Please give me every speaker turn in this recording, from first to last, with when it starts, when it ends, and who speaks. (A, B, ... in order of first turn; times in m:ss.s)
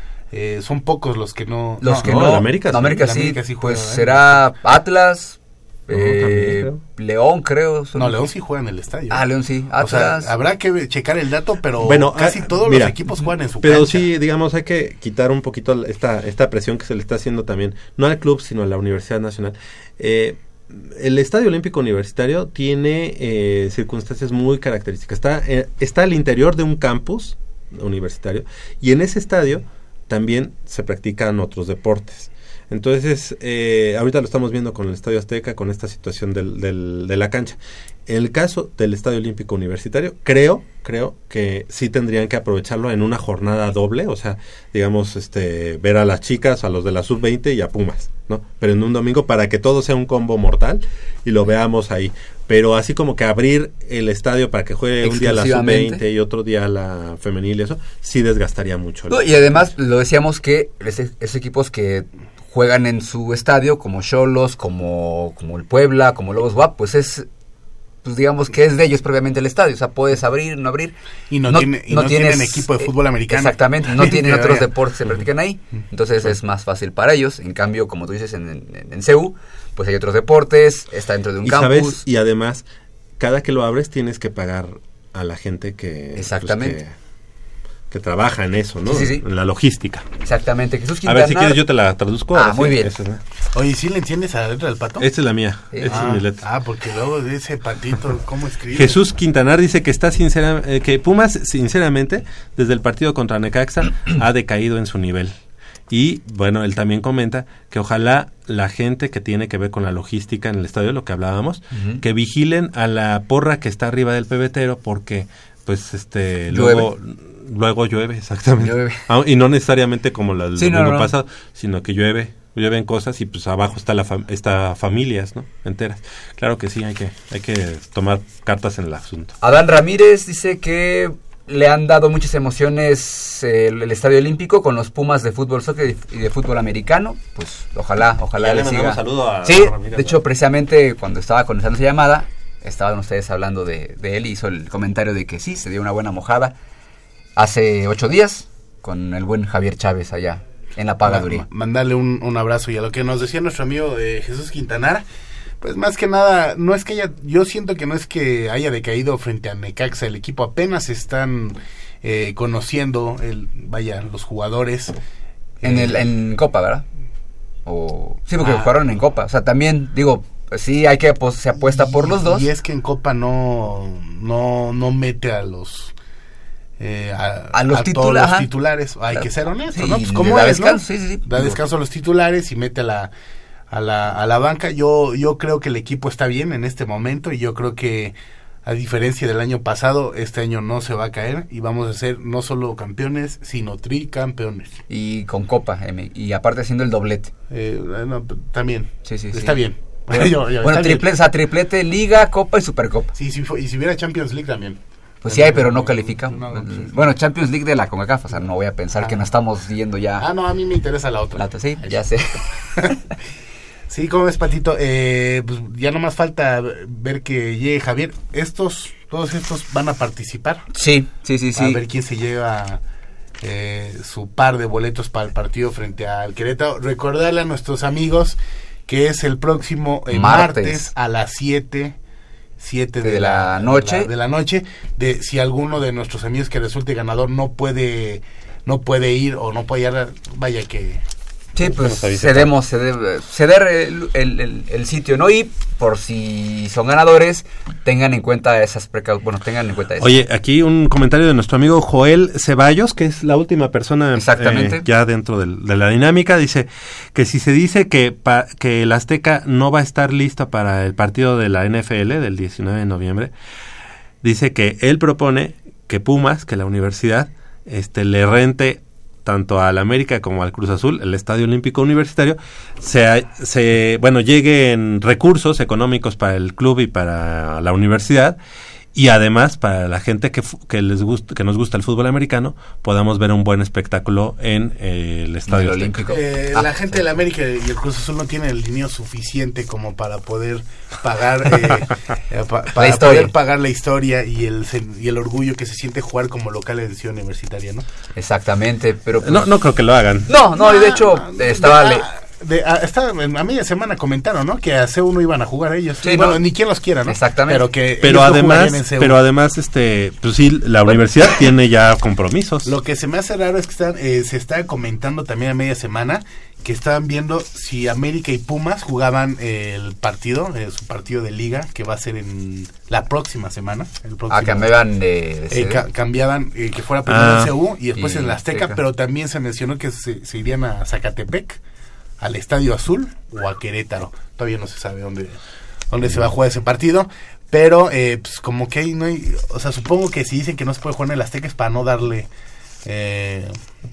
0:00.3-0:04.2 A
0:01.8-0:08.2 B
0:02.0-0:03.0 C
0:05.9-0:06.8 C
0:08.0-0:09.2 A
0:09.1-0:10.3 B
0:09.8-0:14.1 A
0:11.8-0:13.0 C
0:13.6-0:59.3 C
0:55.0-0:56.0 B
0:59.1-1:07.3 B
1:08.0-1:11.0 B
1:11.3-1:14.7 A
1:11.5-1:22.0 B
1:21.4-1:22.6 C
1:23.2-1:27.0 C
1:26.2-1:26.8 B
1:27.9-1:30.1 C
1:28.9-1:29.2 B
1:30.2-1:31.6 B
1:31.0-1:33.2 C
1:32.3-1:32.9 B
1:33.5-1:35.1 A
1:35.0-1:36.4 C
1:35.7-1:36.2 B
1:35.8-1:39.0 A
1:38.8-1:45.3 C
1:45.9-2:09.4 C
1:51.7-1:52.0 B
1:56.5-1:56.9 B
1:58.6-1:59.0 B
2:00.6-2:01.1 B
2:09.4-2:26.5 B
2:18.4-2:20.2 C
2:27.4-2:31.5 B
2:31.0-2:35.0 A
2:35.6-2:45.0 A
2:45.6-2:46.1 A
2:45.6-2:46.8 B
2:47.7-2:52.5 B
2:48.4-2:48.8 A
2:51.6-2:56.0 A
2:56.8-3:03.1 A
2:57.5-2:58.5 B
2:59.1-3:01.6 B
3:03.7-3:14.8 A
3:14.9-3:17.3 B
3:17.5-3:21.1 A
3:19.0-3:23.1 B
3:23.2-3:27.1 A
3:25.2-3:30.3 B
3:30.2-3:33.0 A
3:31.4-3:33.0 B
3:33.9-3:40.6 A
3:40.7-3:41.8 B
3:41.6-3:42.8 A
3:43.4-3:52.0 A
3:50.1-3:50.9 B
3:52.6-4:01.0 A
3:53.0-3:54.1 B
4:01.6-4:10.2 B
4:01.6-4:02.5 C
4:10.0-4:23.3 C
4:14.2-4:14.9 B
4:24.2-4:38.4 C
4:39.0-4:46.0 C
4:45.5-4:47.0 B
4:46.1-4:57.8 A
4:52.8-4:53.3 B
4:58.2-4:59.5 B
4:59.2-5:00.3 C
5:00.3-5:02.1 B
5:00.5-5:09.2 A
5:06.0-5:06.4 B
5:07.1-5:07.7 B
5:08.0-5:12.7 C
5:12.6-5:24.7 A
5:24.3-5:25.8 B
5:25.5-5:31.6 A
5:27.1-5:27.5 C
5:28.0-5:28.8 B
5:32.2-5:35.4 A
5:35.9-5:42.3 A
5:42.8-5:43.6 A